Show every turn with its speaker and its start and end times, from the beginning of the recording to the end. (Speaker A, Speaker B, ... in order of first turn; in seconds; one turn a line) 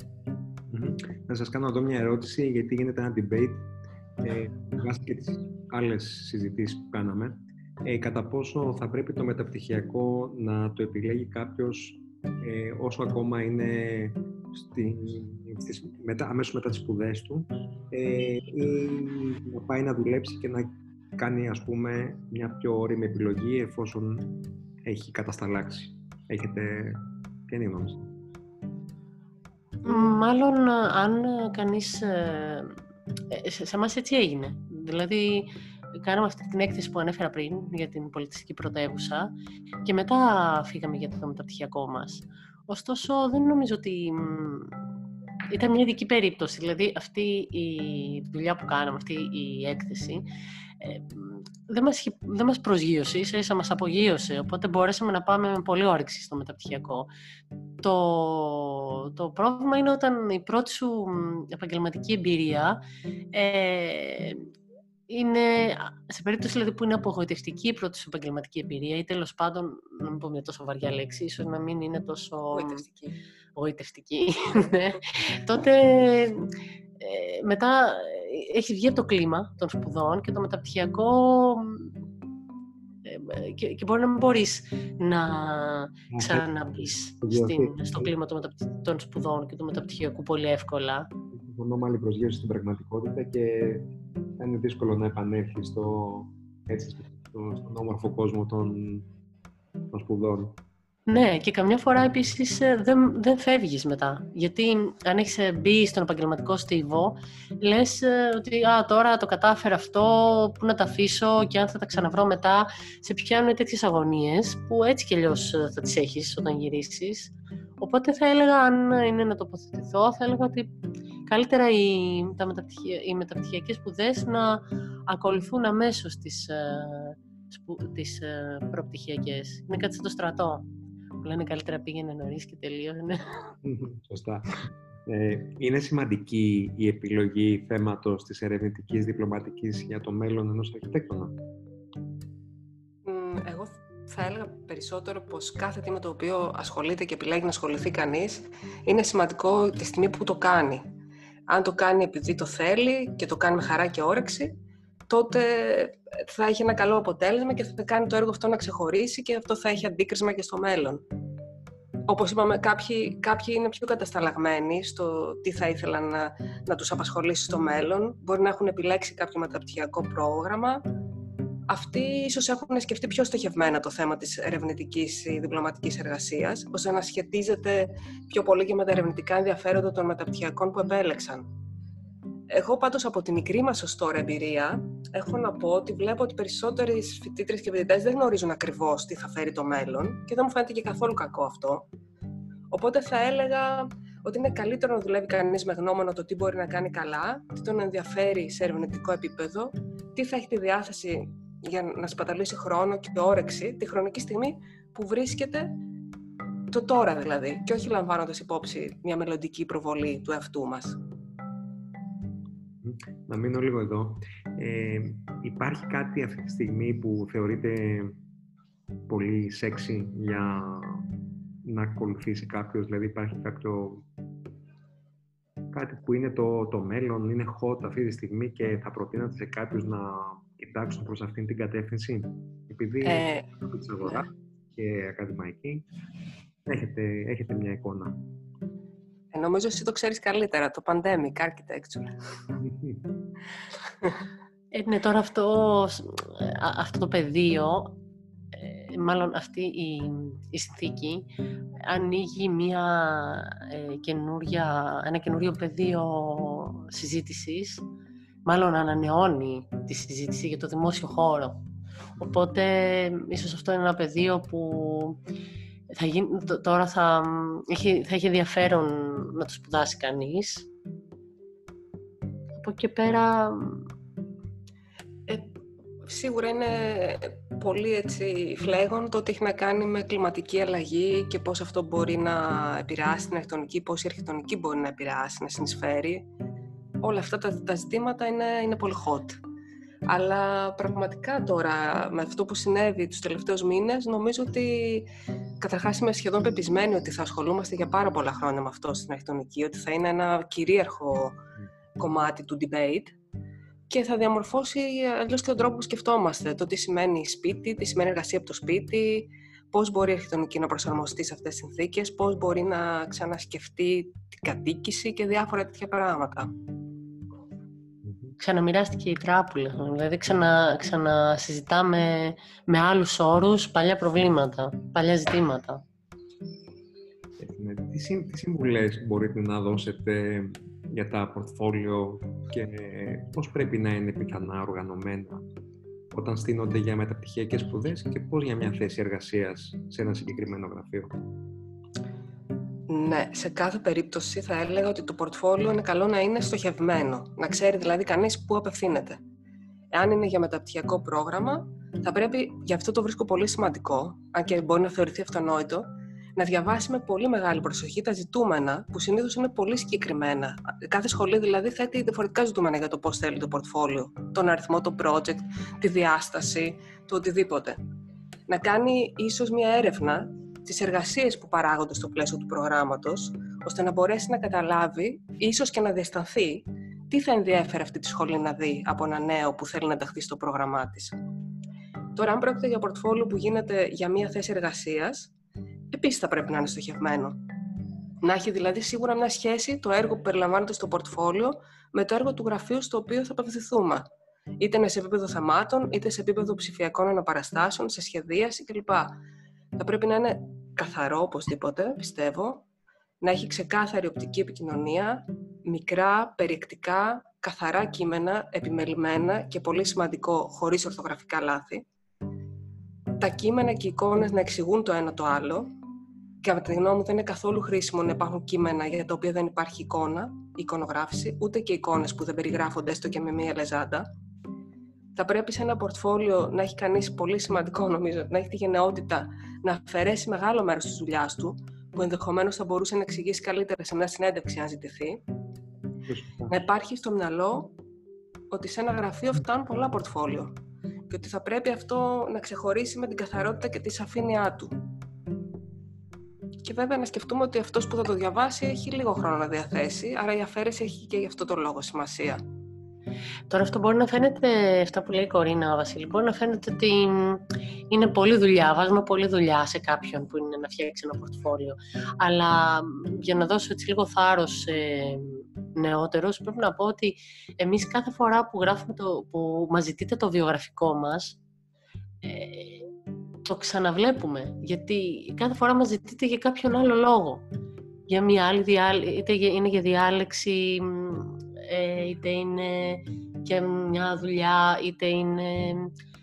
Speaker A: 0.7-28.1
Speaker B: 29.8-32.8
Speaker B: 33.3-39.3
Speaker B: 39.9-44.8
Speaker B: 45.5-50.3
Speaker B: 50.8-57.1
Speaker B: 57.8-64.5
Speaker B: 65.1-72.8
Speaker C: 72.5-73.2
Speaker B: 73.6-81.9
Speaker B: 83.0-91.1
Speaker A: 86.1-88.1
Speaker A: 91.3-99.0
Speaker A: 99.9-100.6
Speaker B: 101.1-120.7
Speaker B: 121.3-133.4
Speaker A: 133.6-141.4
Speaker C: 143.1-150.9
Speaker C: 151.5-154.6
Speaker C: 155.1-161.0
Speaker C: 162.1-170.8
Speaker C: 171.7-181.5
Speaker C: 182.5-191.9
Speaker C: 192.7-205.8
Speaker C: 206.7-211.0
Speaker A: 212.8-218.2
Speaker A: 219.1-221.1
Speaker A: 221.6-224.1
Speaker A: 225.7-235.8
Speaker C: 233.0-233.5
Speaker A: 236.7-238.2
Speaker C: 239.3-242.2
Speaker A: 242.6-243.0
Speaker B: 244.7-248.0
Speaker B: 248.5-251.3
Speaker B: 251.8-257.8
Speaker B: 258.4-261.6
Speaker B: 262.2-265.2
Speaker B: 265.9-270.7
Speaker B: 272.6-273.9
Speaker C: 275.3-275.5
Speaker C: 276.0-286.3
Speaker C: 287.0-289.4
Speaker C: 290.1-301.4
Speaker C: 302.0-303.1
Speaker C: 303.9-316.5
Speaker A: 318.1-318.4
Speaker B: 318.4-325.8
Speaker A: 327.4-335.4
Speaker A: 336.1-341.1
Speaker C: 342.9-349.2
Speaker C: 349.9-367.8
Speaker C: 368.5-381.2
Speaker C: 382.1-385.3
Speaker C: 385.9-387.4
Speaker C: 388.2-394.1
Speaker C: 394.6-399.2
Speaker C: 399.8-402.6
Speaker C: 403.2-411.9
Speaker C: 413.2-415.7
Speaker C: 416.4-424.1
Speaker C: 425.1-435.2
Speaker A: 436.1-436.6
Speaker C: 436.5-437.7
Speaker C: 438.5-440.6
Speaker C: 441.1-444.8
Speaker C: 446.6-452.4
Speaker B: 453.5-471.4
Speaker B: 472.2-472.9
Speaker B: 473.4-477.4
Speaker B: 478.1-485.9